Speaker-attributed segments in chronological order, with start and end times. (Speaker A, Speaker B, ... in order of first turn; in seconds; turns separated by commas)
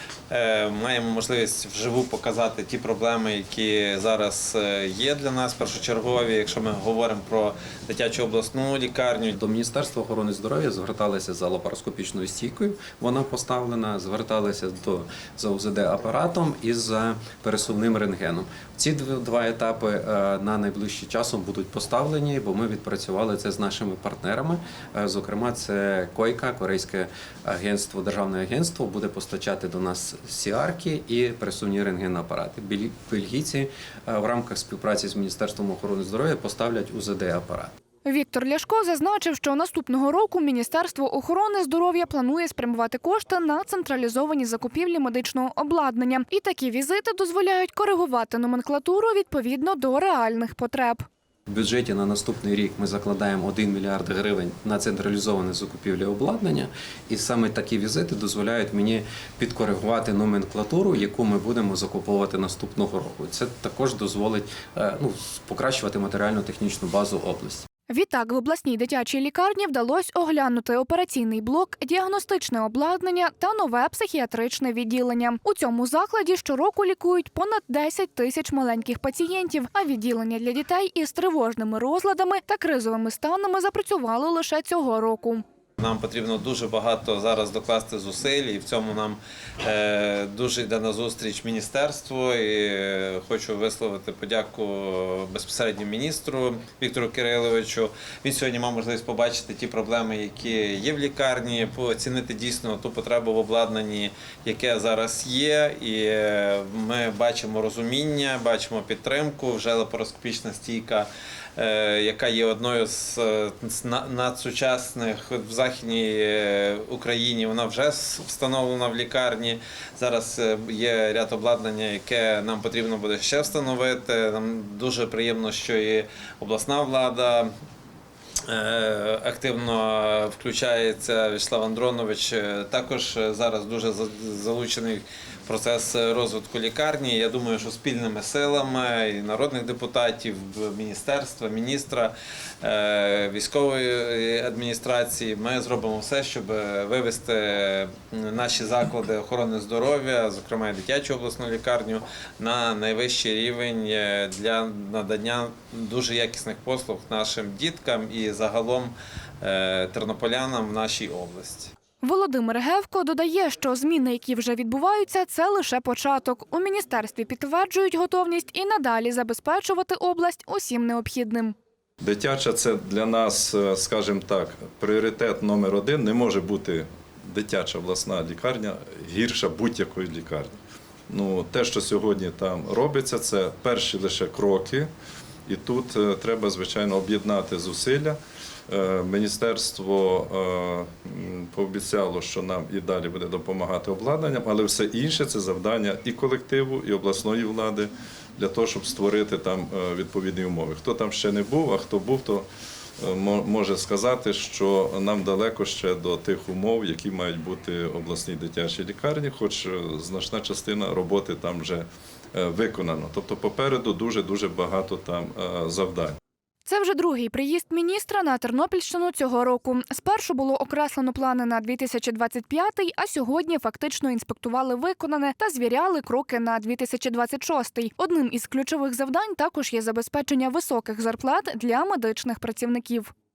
Speaker A: 0.3-9.3, Speaker B: 9.3-37.7, Speaker C: 38.1-51.1, Speaker B: 51.5-67.7, Speaker C: 67.9-85.4, Speaker A: 85.8-127.5, Speaker A: 128.5-161.7, Speaker C: 162.0-171.6, Speaker D: 172.0-180.6, Speaker D: 181.1-184.9, Speaker D: 185.5-202.5, Speaker D: 203.0-216.2, Speaker C: 216.7-233.1